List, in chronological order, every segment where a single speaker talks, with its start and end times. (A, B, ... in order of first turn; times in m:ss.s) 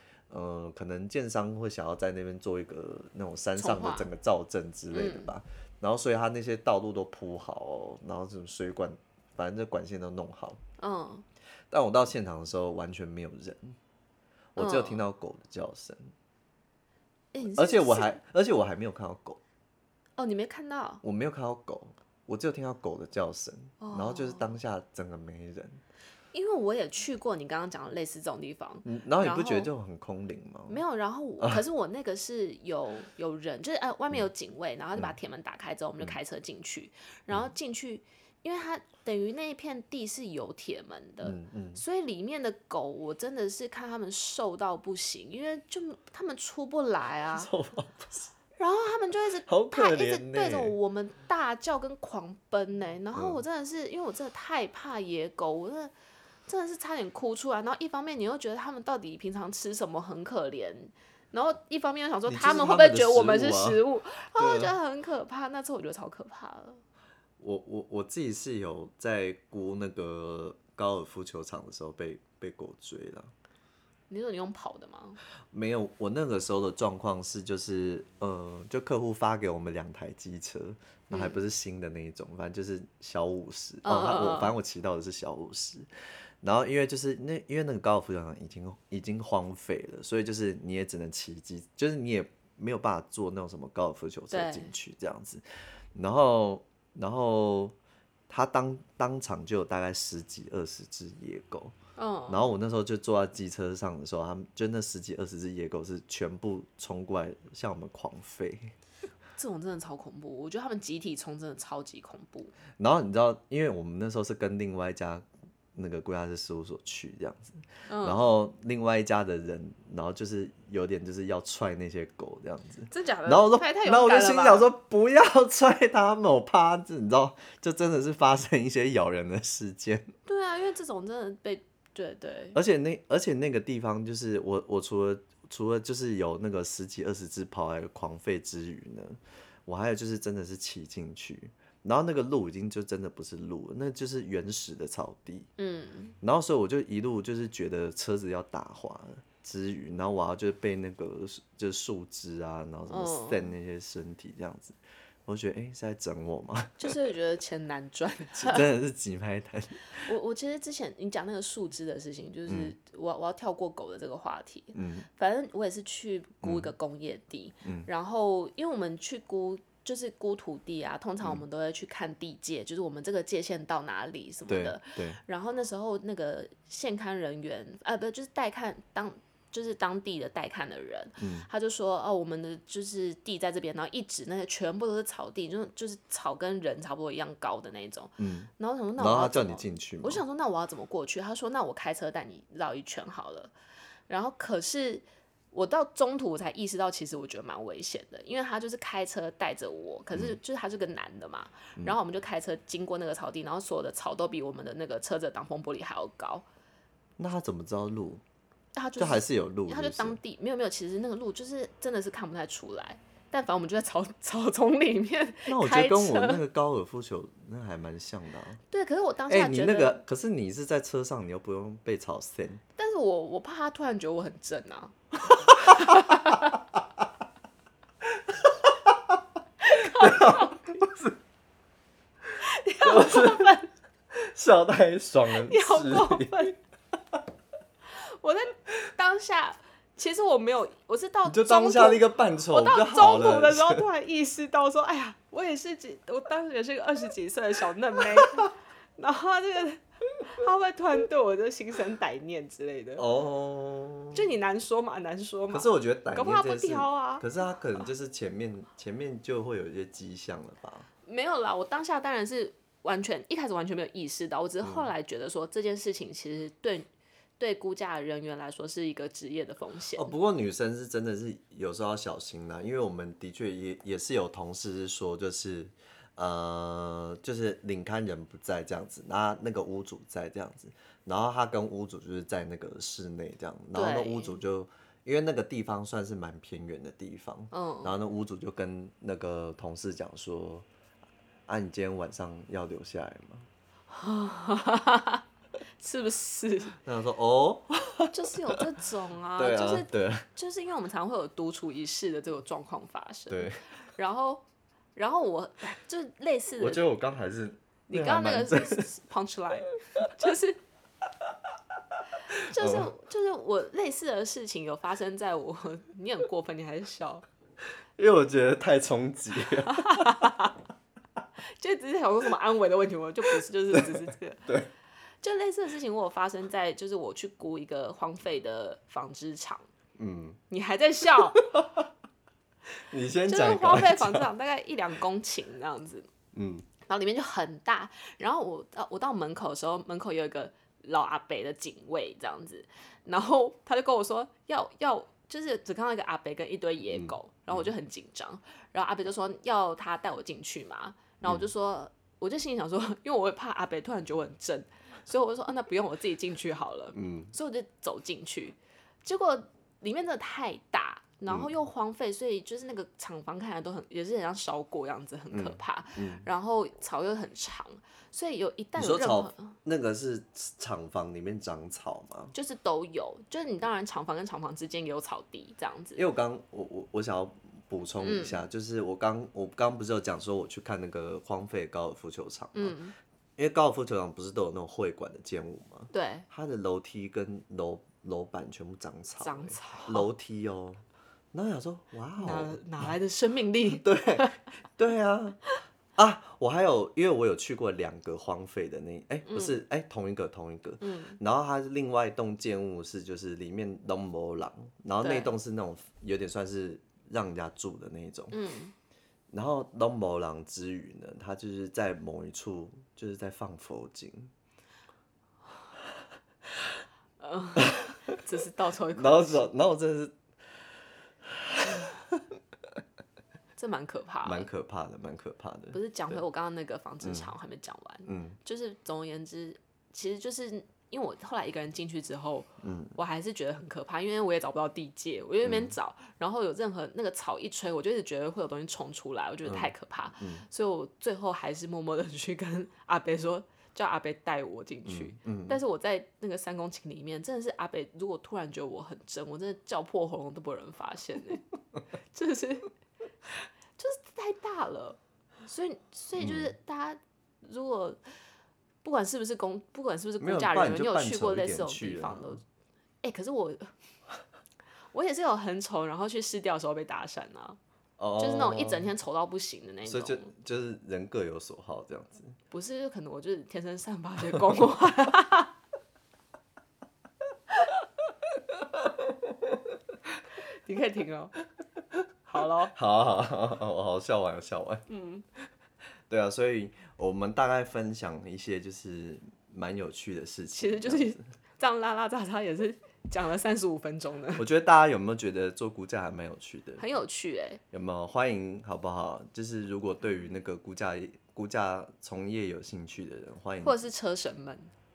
0:00.3-0:10.6 A
0:03.6-0:04.1 B
0:04.9-0:05.3 B
0:10.8-0:11.2 B
0:11.7-0:13.8 A
0:14.5-0:16.1 A
0:14.6-0:15.0 B
0:17.3-0:18.2 B
0:17.5-0:19.4 A
0:20.2-0:21.0 B
0:21.0-0:25.8 A
0:23.8-0:24.6 B
0:26.3-0:29.7 B
0:28.8-0:30.8 A
0:30.7-0:47.5 B
0:41.2-0:41.8 A
0:47.3-0:48.3 A
0:48.6-0:55.9 B
0:49.5-0:50.8 A
0:53.1-0:53.4 A
0:56.5-1:06.8 B
1:02.2-1:03.8 A
1:04.4-1:04.8 A
1:07.4-1:13.3 A
1:14.1-1:15.2 B
1:15.5-1:25.9 A
1:21.1-1:21.4 B
1:23.8-1:24.5 B
1:26.4-1:35.4 A
1:34.3-1:34.7 B
1:35.9-1:37.7 A
1:38.3-1:41.7 A
1:42.0-1:42.5 B
1:42.3-1:48.7 A
1:49.4-1:52.5 B
1:52.8-2:10.1 A
1:57.9-1:58.2 B
2:02.9-2:04.7 B
2:10.2-2:12.6 B
2:12.5-2:25.5 A
2:25.6-2:26.1 B
2:26.2-2:37.0 A
2:32.9-2:33.5 B
2:36.8-2:38.7 B
2:38.4-2:40.0 A
2:40.0-3:13.5 B
2:42.5-2:42.7 A
2:44.7-2:45.1 A
2:46.4-2:46.7 A
2:47.6-2:47.9 A
2:54.5-2:55.2 A
3:01.2-3:01.5 A
3:08.2-3:10.2 A
3:14.1-3:26.4 B
3:20.1-3:20.4 A
3:27.2-3:28.2 A
3:28.7-3:36.4 B
3:29.0-3:30.2 A
3:35.5-3:38.6 A
3:38.7-3:40.0 B
3:39.3-3:42.6 A
3:42.8-3:46.5 B
3:45.2-3:46.4 A
3:48.1-3:49.2 A
3:49.6-3:50.7 B
3:49.7-3:51.2 A
3:52.4-3:53.7 B
3:52.8-3:53.5 A
3:54.1-3:56.5 A
3:55.3-3:56.6 B
3:58.0-4:13.0 B
4:01.3-4:03.8 A
4:13.0-4:14.3 A
4:14.1-4:17.3 B
4:15.5-4:20.9 A
4:21.0-4:26.8 B
4:24.6-4:24.9 A
4:27.4-4:30.1 B
4:30.0-4:50.7 A
4:43.7-4:44.4 B
4:47.5-4:48.0 B
4:51.5-4:53.5 A
4:53.9-4:55.2 B
4:55.8-4:56.8 B
4:56.8-4:58.6 A
4:58.1-5:04.4 B
4:59.4-5:00.2 A
5:03.3-5:03.6 A
5:05.0-5:06.8 B
5:06.6-5:08.9 A
5:07.9-5:10.6 B
5:12.3-5:12.9 A
5:12.4-5:17.2 B
5:18.0-5:20.2 A
5:19.6-5:20.6 B
5:21.5-5:24.5 B
5:23.7-5:24.7 A
5:25.2-5:29.7 B
5:30.0-5:30.4 A
5:30.5-5:31.4 B
5:31.3-5:31.9 A
5:32.9-5:34.3 A
5:33.2-5:36.1 B
5:36.3-5:36.6 A
5:36.8-6:09.5 B
5:46.9-5:47.7 A
5:51.2-5:51.5 A
5:56.9-5:57.3 A
6:01.3-6:01.5 A
6:05.3-6:06.3 A
6:08.8-6:12.3 A
6:12.3-6:16.0 B
6:15.9-6:22.8 A
6:18.0-6:18.4 B
6:22.5-6:22.9 B
6:23.4-6:30.8 A
6:25.9-6:26.2 B
6:29.2-6:30.1 B
6:31.3-6:32.9 A
6:32.2-6:34.4 B
6:33.7-6:35.4 A
6:36.0-6:48.4 A
6:39.2-6:39.6 B
6:40.8-6:41.2 B
6:45.0-6:45.3 B
6:48.3-6:48.7 B
6:49.3-6:54.3 A
6:57.2-6:59.5 B
6:57.6-6:58.2 A
6:58.9-7:00.2 A
7:01.2-7:02.4 A
7:03.6-7:04.5 B
7:04.2-7:06.2 A
7:05.7-7:31.5 B
7:07.0-7:07.3 A
7:08.0-7:08.4 A
7:12.6-7:13.0 A
7:15.4-7:15.7 A
7:19.4-7:20.4 A
7:24.8-7:25.6 A
7:32.1-7:32.7 B
7:33.8-7:38.0 B
7:36.2-7:36.5 A
7:38.8-7:42.4 B
7:40.2-7:42.4 A
7:43.0-7:43.7 B
7:44.9-7:47.6 B
7:48.0-7:48.9 A
7:48.2-7:50.3 B
7:49.8-7:52.4 A
7:52.5-7:55.5 B
7:58.6-7:59.7 A
8:00.6-8:01.3 B
8:02.3-8:02.7 B
8:02.7-8:04.8 A
8:04.9-8:05.2 B
8:06.1-8:11.2 A
8:10.5-8:14.4 B
8:14.4-8:16.8 A
8:16.8-8:17.6 B
8:17.7-8:23.8 A
8:23.6-8:24.7 B